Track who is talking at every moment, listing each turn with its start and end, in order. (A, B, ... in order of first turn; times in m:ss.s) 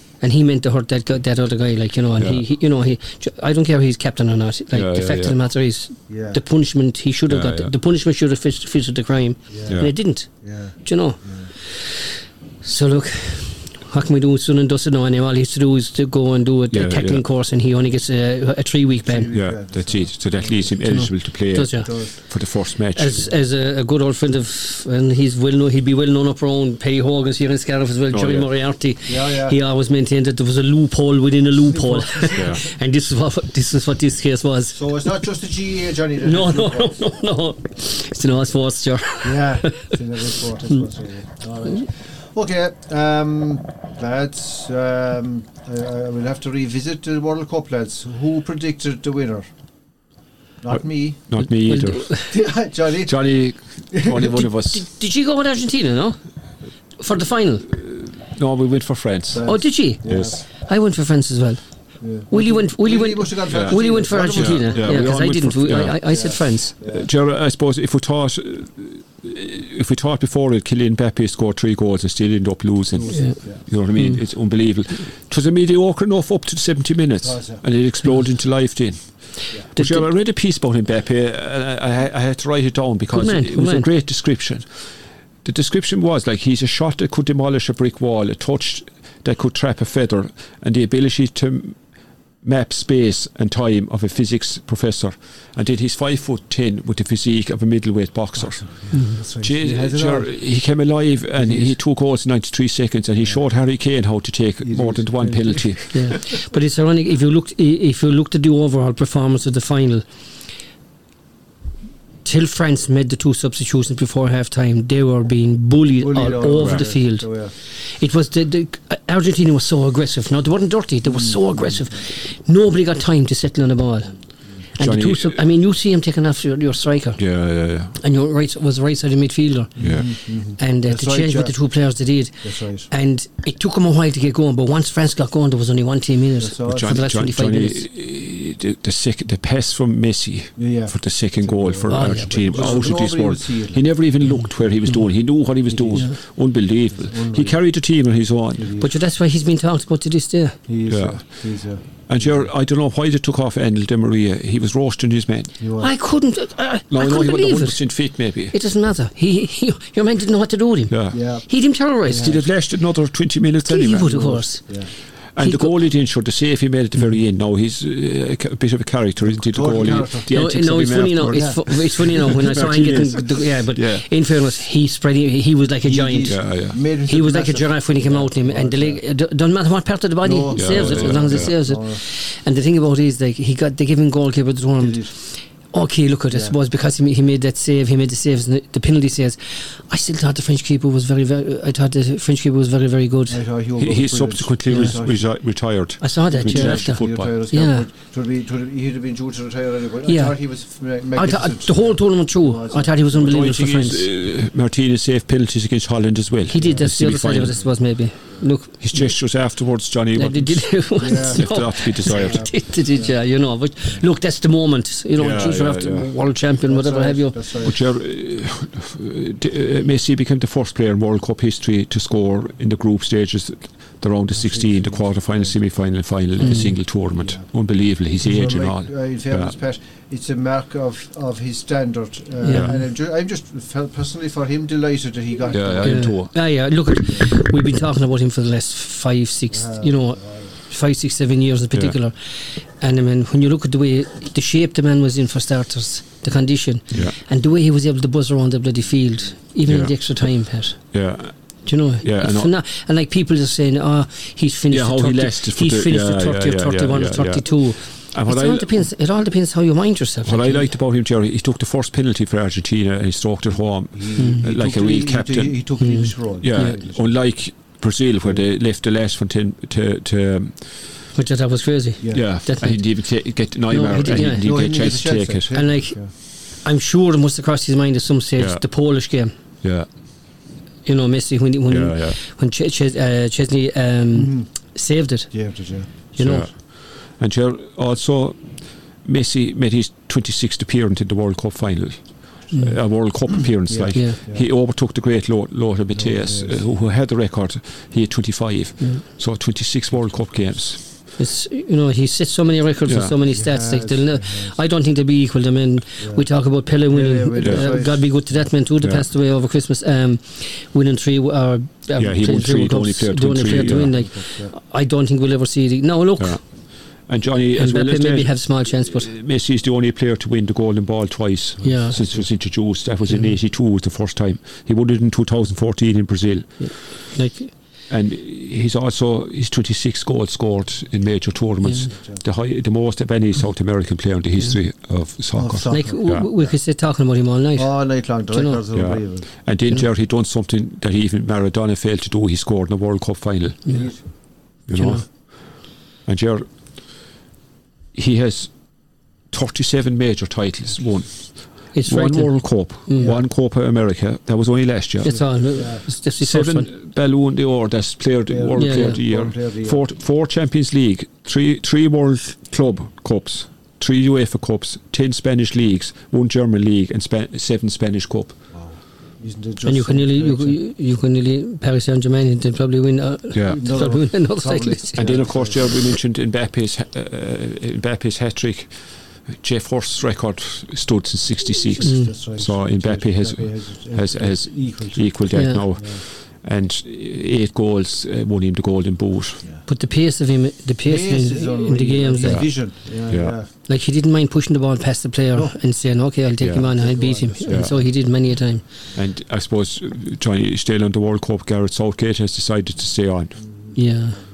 0:00.2-0:10.3 A
0:02.2-0:02.4 B
0:04.7-0:05.4 B
0:06.1-0:06.4 C
0:07.3-0:07.7 B
0:09.5-0:11.5 C
0:09.7-0:09.9 B
0:10.8-0:19.3 A
0:16.7-0:17.2 B
0:19.0-0:21.2 C
0:19.3-0:23.2 B
0:20.8-0:35.0 A
0:21.7-0:22.3 C
0:28.1-0:28.5 B
0:29.1-0:29.6 C
0:31.7-0:32.6 C
0:32.4-0:32.6 B
0:34.7-0:36.9 C
0:36.2-0:39.9 A
0:39.2-0:49.5 C
0:50.6-0:51.4 C
0:50.7-0:52.2 B
0:51.4-0:52.3 A
0:52.3-0:54.4 C
0:53.0-0:54.9 B
0:54.2-0:56.2 A
0:57.0-0:57.7 A
0:57.7-1:00.4 B
0:59.3-1:00.4 C
0:59.5-1:06.8 A
1:02.0-1:07.1 C
1:03.5-1:06.1 B
1:06.8-1:24.8 B
1:12.9-1:13.7 C
1:13.1-1:13.4 A
1:14.0-1:14.2 A
1:17.2-1:17.7 C
1:19.8-1:20.1 A
1:23.1-1:23.9 A
1:25.4-1:31.8 B
1:32.4-1:46.2 B
1:38.4-1:40.4 C
1:38.9-1:39.2 A
1:41.4-1:41.8 C
1:44.6-1:46.2 C
1:45.9-1:50.1 A
1:52.2-2:07.3 A
1:56.0-1:57.5 C
1:56.6-1:56.9 B
2:01.0-2:02.0 C
2:04.8-2:05.4 B
2:07.2-2:08.0 B
2:07.9-2:17.8 A
2:09.8-2:11.6 C
2:09.8-2:10.1 B
2:12.4-2:12.9 C
2:16.4-2:17.0 C
2:16.7-2:28.7 B
2:20.6-2:23.8 C
2:21.9-2:22.9 A
2:24.2-2:25.1 A
2:25.6-2:26.1 C
2:26.9-2:27.8 C
2:28.6-2:28.9 C
2:28.8-2:30.6 A
2:30.7-2:32.5 C
2:30.9-2:35.6 B
2:35.6-2:35.9 C
2:35.8-2:42.4 A
2:36.9-2:38.6 B
2:40.9-2:41.2 B
2:41.1-2:42.5 C
2:42.1-2:44.7 B
2:43.6-2:45.7 A
2:44.1-2:44.9 C
2:45.3-2:54.1 B
2:49.2-2:53.3 C
2:50.3-3:13.4 A
2:55.8-2:59.0 C
2:56.3-2:56.8 B
3:00.2-3:02.0 C
3:00.5-3:01.6 B
3:04.8-3:05.1 C
3:06.3-3:06.6 C
3:13.3-3:15.3 C
3:13.8-3:17.3 B
3:14.7-3:15.0 A
3:16.0-3:17.9 A
3:16.3-3:23.6 C
3:20.1-3:20.4 A
3:21.2-3:24.0 A
3:23.2-3:27.6 B
3:26.5-3:29.1 A
3:26.5-3:26.9 C
3:27.5-3:27.8 C
3:28.8-3:32.6 B
3:30.2-3:37.4 A
3:31.0-3:33.2 C
3:35.2-3:36.1 B
3:36.6-3:37.8 C
3:37.6-3:49.6 B
3:44.3-3:45.6 C
3:46.4-3:46.8 A
3:47.2-3:47.5 C
3:48.2-3:56.3 C
3:52.4-3:52.8 A
3:52.5-3:52.8 B
3:55.5-3:56.3 B
3:55.8-4:10.9 A
3:57.0-3:57.3 C
3:59.5-4:00.6 C
4:06.9-4:07.2 B
4:09.7-4:10.3 B
4:10.8-4:11.5 B
4:11.6-4:20.7 A
4:12.0-4:12.5 B
4:14.7-4:18.9 B
4:20.2-4:25.6 B
4:23.9-4:27.2 C
4:24.2-4:24.4 A
4:25.8-4:26.8 A
4:26.4-4:30.9 B
4:31.1-4:34.5 A
4:32.0-4:32.3 C
4:32.1-4:35.5 B
4:34.1-4:36.1 C
4:35.5-4:39.3 A
4:38.4-4:38.6 B
4:39.6-4:39.9 B
4:40.8-4:46.5 A
4:41.7-4:42.2 B
4:44.1-4:44.5 C
4:45.3-4:46.4 C
4:46.2-5:01.0 B
4:52.5-4:53.2 A
4:53.4-4:54.4 C
4:55.9-4:56.7 C
5:01.2-5:16.4 A
5:02.9-5:03.2 B
5:03.3-5:04.6 C
5:06.0-5:06.3 C
5:06.9-5:08.1 C
5:07.4-5:07.7 B
5:08.8-5:09.1 B
5:12.0-5:14.0 B
5:13.4-5:14.5 C
5:16.2-5:26.7 B
5:17.6-5:19.1 A
5:21.6-5:22.3 C
5:21.6-5:22.1 A
5:26.6-5:27.5 A
5:27.9-5:36.3 B
5:31.6-5:31.9 A
5:32.0-5:32.2 C
5:35.3-5:36.6 C
5:35.7-5:38.6 A
5:37.6-5:39.3 C
5:38.7-5:43.9 B
5:43.7-5:45.0 A
5:43.7-5:44.0 C
5:44.7-5:46.5 B
5:47.9-5:48.5 B
5:49.3-5:55.4 B
5:51.7-5:53.2 A
5:53.0-5:53.3 C
5:55.0-5:56.7 A
5:55.1-5:55.9 C
5:56.2-6:08.4 B
5:58.3-5:59.8 C
5:58.6-5:59.0 A
6:08.5-6:10.6 C
6:09.6-6:15.1 A
6:13.3-6:13.6 B
6:13.4-6:15.8 C
6:15.0-6:29.4 B
6:21.8-6:26.0 C
6:21.8-6:22.1 A
6:25.3-6:25.6 A
6:29.4-6:29.7 C
6:29.7-6:32.5 A
6:30.8-6:33.5 C
6:32.2-6:33.4 B
6:33.6-6:38.6 A
6:36.4-6:36.7 B
6:36.8-6:37.9 C
6:37.5-6:37.8 B
6:39.0-6:43.4 B
6:43.8-6:44.2 A